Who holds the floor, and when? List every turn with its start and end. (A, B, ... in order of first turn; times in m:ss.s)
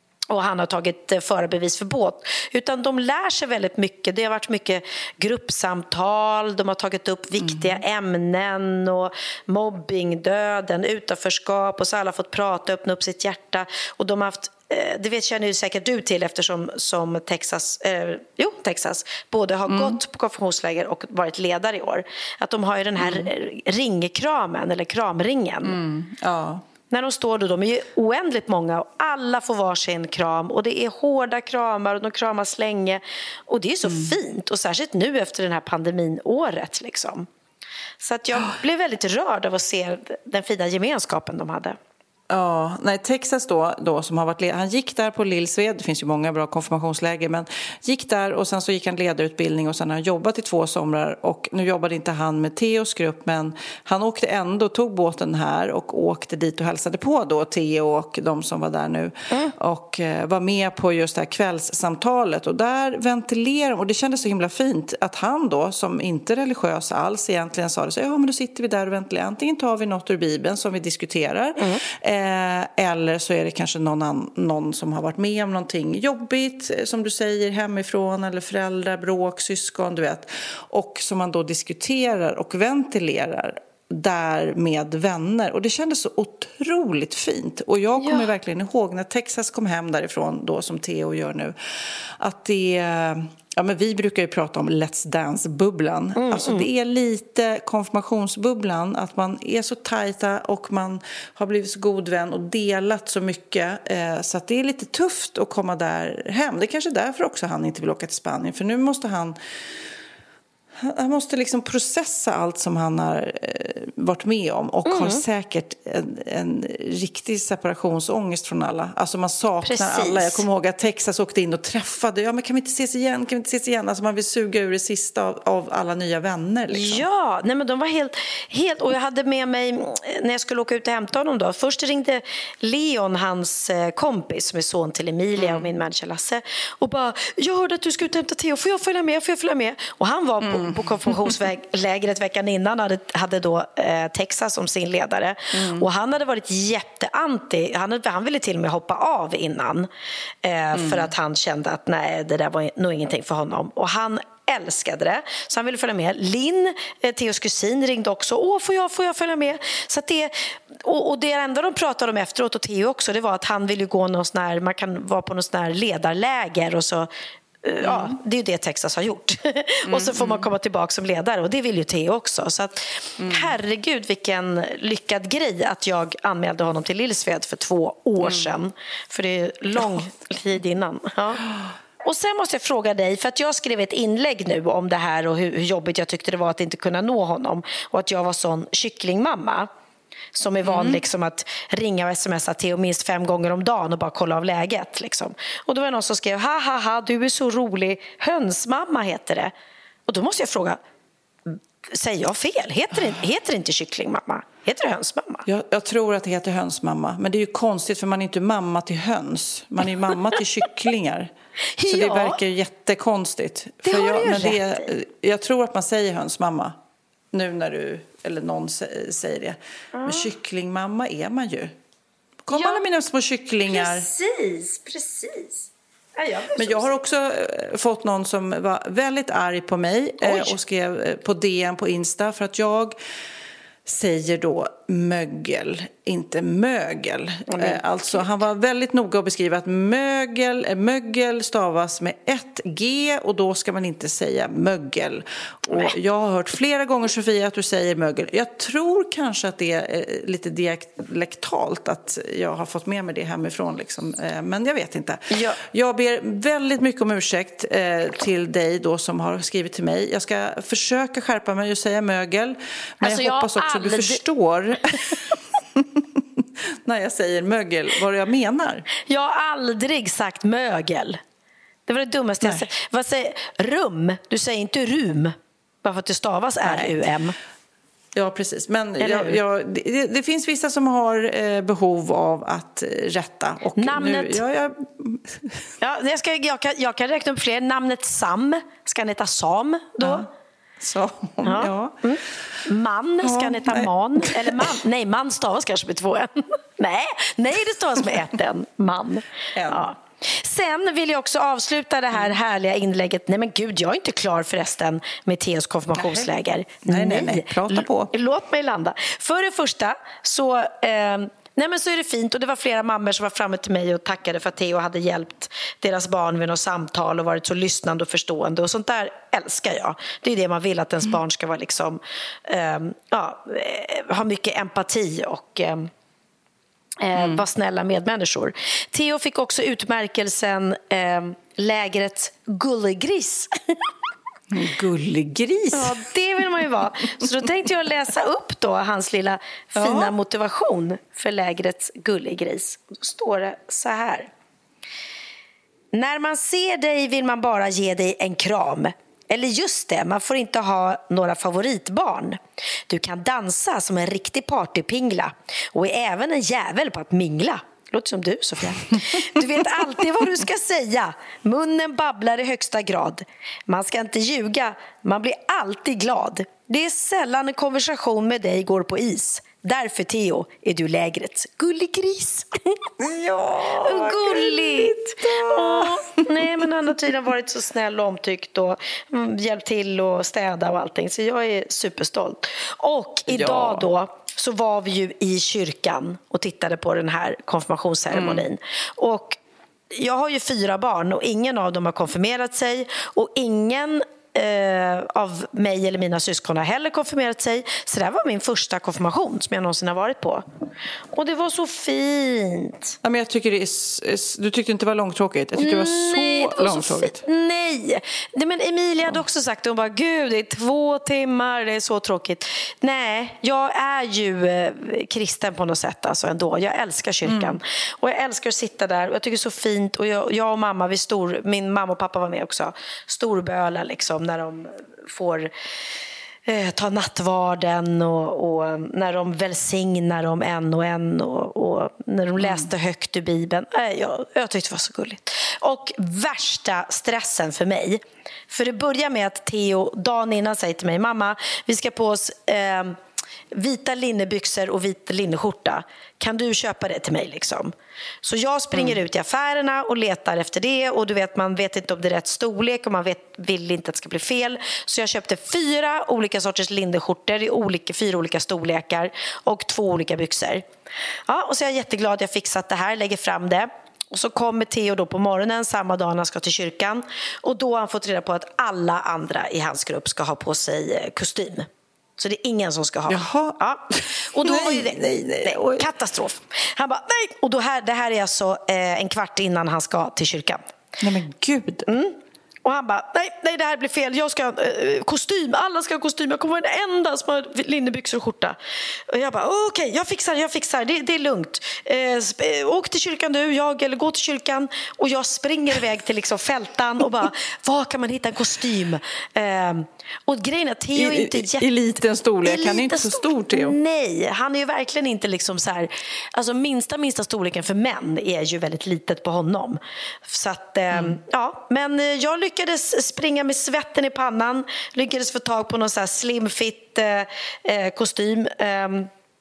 0:00.3-0:25.8 A
0:07.4-0:07.8 B
0:19.7-0:20.0 B
0:23.0-0:23.3 B
0:25.6-0:26.6 B
0:26.9-0:37.3 A
0:33.8-0:34.1 B
0:38.0-0:41.8 A
0:42.3-1:31.6 B
1:11.6-1:11.8 A
1:28.0-1:28.2 A
1:32.2-1:49.4 B
1:36.2-1:36.6 A
1:50.8-2:07.0 B
1:54.9-1:55.2 A
1:59.6-2:00.4 A
2:06.7-2:29.9 A
2:15.4-2:15.7 B
2:20.4-2:21.4 B
2:25.5-2:25.9 B
2:30.4-2:47.1 A
2:30.7-2:31.1 B
2:47.6-3:01.5 A
2:47.8-2:48.2 B
2:49.8-2:50.5 B
2:53.2-2:53.5 B
2:58.2-2:58.5 B
3:02.0-3:09.7 A
3:10.4-3:19.5 A
3:10.6-3:11.0 B
3:20.1-3:20.8 A
3:21.9-3:25.4 A
3:25.5-3:31.3 B
3:31.8-3:32.4 A
3:31.8-3:36.8 B
3:33.8-3:34.9 A
3:37.3-3:41.8 B
3:39.9-3:40.3 A
3:42.5-3:44.1 B
3:42.5-3:42.8 A
3:43.7-3:46.9 A
3:46.5-3:53.0 B
3:50.2-3:50.6 A
3:53.9-4:28.9 B
3:57.5-3:58.3 A
4:15.3-4:15.6 A
4:23.0-4:24.2 A
4:29.0-4:31.2 A
4:31.9-4:37.4 A
4:32.4-4:32.7 B
4:36.6-4:37.1 B
4:38.1-4:45.6 B
4:39.0-4:39.4 A
4:43.8-4:44.4 A
4:45.8-4:50.2 A
4:50.0-4:50.3 B
4:50.8-4:52.0 B
4:51.4-5:25.9 A
4:53.2-4:54.7 B
4:59.5-4:59.9 B
5:06.0-5:06.3 B
5:06.8-5:08.1 B
5:27.0-5:33.8 A
5:27.2-5:27.4 B
5:34.5-5:36.0 B
5:35.7-5:44.3 A
5:39.8-5:40.1 B
5:45.9-6:12.8 A
6:13.0-6:16.6 B
6:13.8-6:29.4 A
6:23.3-6:23.9 B
6:28.1-6:28.5 B
6:29.9-6:40.4 A
6:41.1-6:43.0 A
6:43.0-6:47.2 B
6:45.6-7:05.5 A
6:57.2-6:57.6 B
7:06.5-7:23.0 A
7:12.4-7:12.7 B
7:23.5-7:40.6 A
7:28.7-7:29.0 B
7:41.3-8:00.6 A
7:53.1-7:55.9 B
8:01.0-8:01.9 B
8:01.9-8:08.6 A
8:09.1-8:21.7 A
8:21.0-8:23.8 B
8:22.4-8:39.1 A
8:30.9-8:31.2 B